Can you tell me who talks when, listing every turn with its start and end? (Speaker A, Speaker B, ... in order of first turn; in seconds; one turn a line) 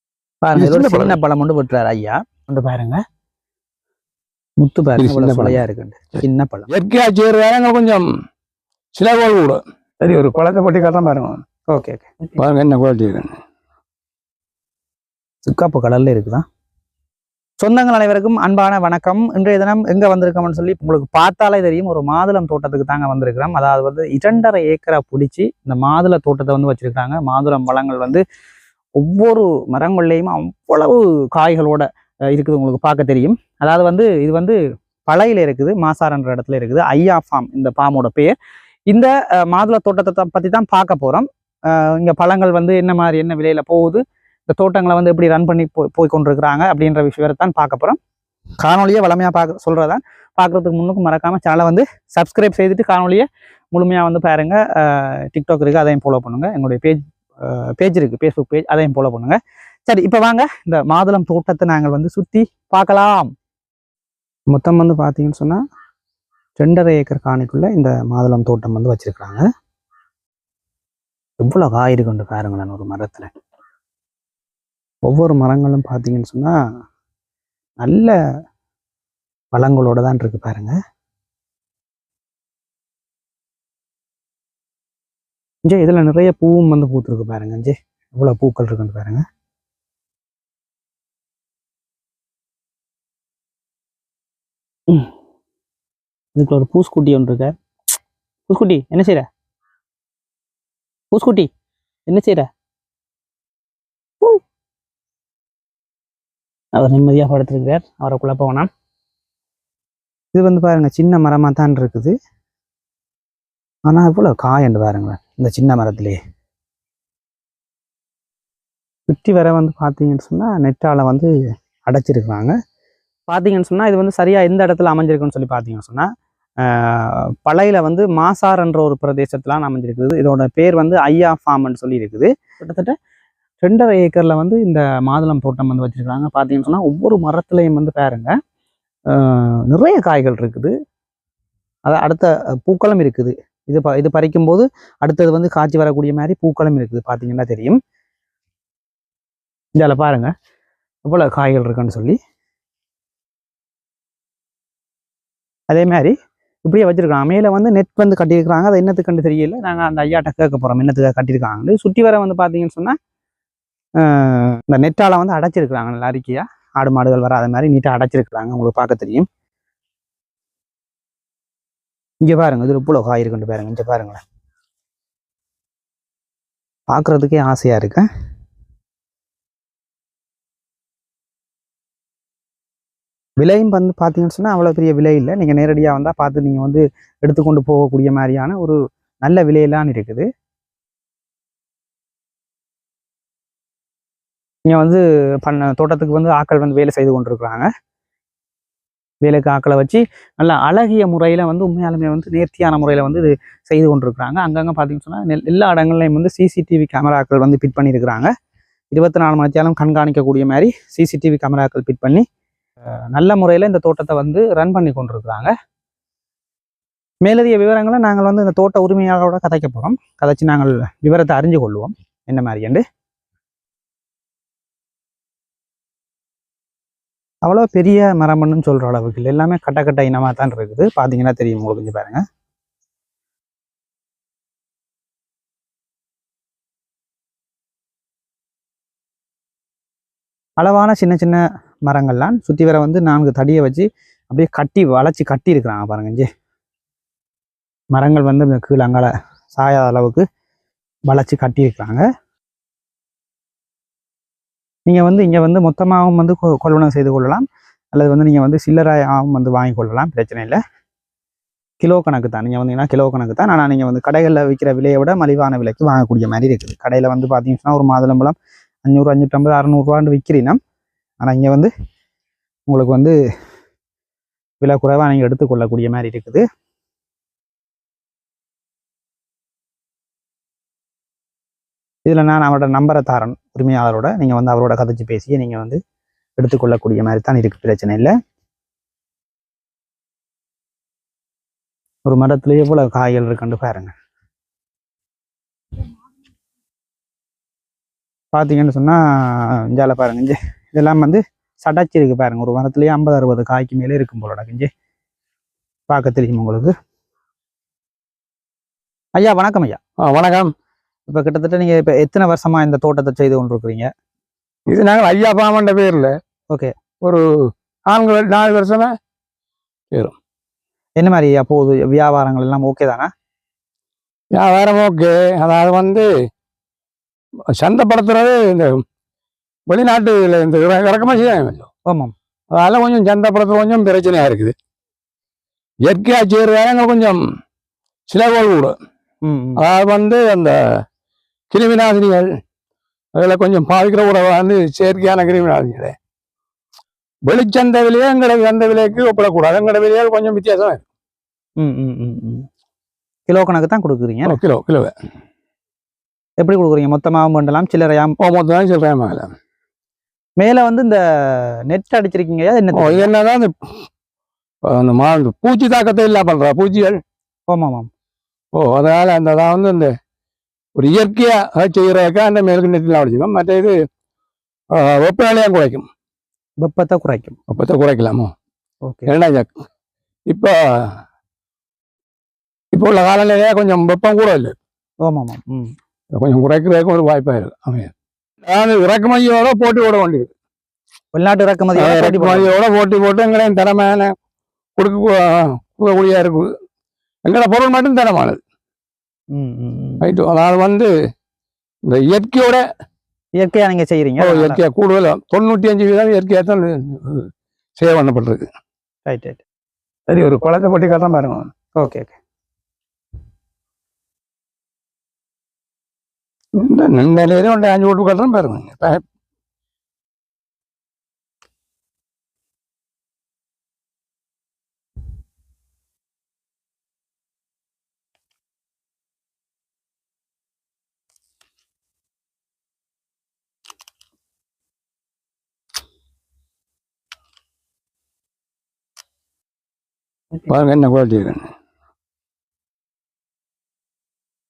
Speaker A: 0.4-3.0
Speaker B: 0.6-1.2
Speaker A: 4.6-6.7
Speaker B: 5.0-5.6
Speaker B: 6.7-8.1
Speaker B: 8.9-11.4
Speaker A: 11.7-12.3
Speaker B: 12.4-13.3
Speaker A: 15.5-16.4
Speaker A: 17.6-28.2
Speaker A: 29.0-38.4
Speaker A: 38.9-48.0
Speaker A: 48.6-63.3
Speaker A: 64.5-65.6
Speaker A: 66.6-69.5
Speaker A: 71.4-73.3
Speaker A: 75.1-76.6
Speaker A: 77.8-78.1
Speaker A: 79.5-80.7
Speaker A: 85.7-89.2
Speaker A: 96.3-97.5
Speaker A: 98.5-99.3
Speaker A: 101.1-101.5
Speaker A: 102.1-102.5
Speaker A: 106.8-108.7
Speaker A: 110.3-112.1
Speaker A: 113.9-116.2
Speaker A: 119.1-121.3
Speaker A: 121.9-122.5
Speaker A: 123.3-126.1
Speaker A: 126.7-132.9
Speaker A: 133.6-138.3
Speaker A: 139.1-140.7
Speaker A: 141.9-147.8
Speaker A: 149.8-150.3
Speaker A: 151.1-152.2
Speaker A: 155.7-156.1
Speaker A: 156.7-162.9
Speaker A: 164.0-169.3
Speaker A: 172.2-174.2
Speaker A: 176.9-178.1
Speaker A: 183.4-190.2
Speaker A: 194.7-197.7
Speaker A: 199.2-208.3
Speaker A: 208.9-212.2
Speaker A: 213.1-215.5
Speaker A: 217.2-222.8
Speaker A: 227.4-232.2
Speaker A: 240.6-246.3
Speaker A: 247.9-250.2
Speaker A: 251.1-252.0
Speaker A: 254.9-260.6
Speaker A: 261.8-270.6
Speaker A: 271.2-271.7
Speaker A: 272.7-273.1
Speaker A: 274.6-276.4
Speaker A: 282.1-285.8
Speaker A: 286.4-288.1
Speaker A: 292.1-293.9
Speaker A: 298.3-304.7
Speaker A: 305.9-306.7
Speaker A: 309.2-309.8
Speaker B: 310.0-310.5
Speaker A: 311.1-313.9
Speaker B: 314.7-316.1
Speaker B: 317.9-318.9
Speaker A: 321.0-323.1
Speaker B: 324.3-326.1
Speaker B: 327.6-328.8
Speaker B: 329.7-331.7
Speaker A: 331.9-332.1
Speaker B: 332.6-334.5
Speaker B: 335.9-337.2
Speaker B: 338.1-338.7
Speaker A: 339.2-339.6
Speaker B: 339.6-340.6
Speaker B: 341.5-342.3
Speaker B: 343.2-345.9
Speaker B: 347.3-350.8
Speaker A: 351.6-352.5
Speaker A: 353.3-354.4
Speaker B: 354.3-354.9
Speaker A: 356.4-358.1
Speaker B: 358.2-359.3
Speaker A: 360.4-363.1
Speaker B: 362.7-363.5
Speaker B: 364.7-367.0
Speaker A: 367.5-367.9
Speaker B: 368.6-369.9
Speaker B: 370.8-373.7
Speaker B: 374.7-375.9
Speaker A: 376.6-377.4
Speaker B: 377.5-378.3
Speaker A: 378.9-379.1
Speaker B: 379.1-379.5
Speaker B: 380.3-380.6
Speaker B: 382.7-384.6
Speaker A: 385.0-385.7
Speaker B: 386.2-387.9
Speaker B: 388.5-390.3
Speaker A: 391.1-392.5
Speaker B: 391.8-394.1
Speaker B: 394.8-396.5
Speaker B: 397.2-398.4
Speaker A: 399.3-400.1
Speaker B: 400.0-400.9
Speaker B: 401.9-402.6
Speaker A: 403.4-404.6
Speaker B: 404.2-408.5
Speaker A: 409.1-409.4
Speaker B: 410.1-411.5
Speaker A: 411.8-412.2
Speaker B: 416.6-419.0
Speaker B: 440.4-441.5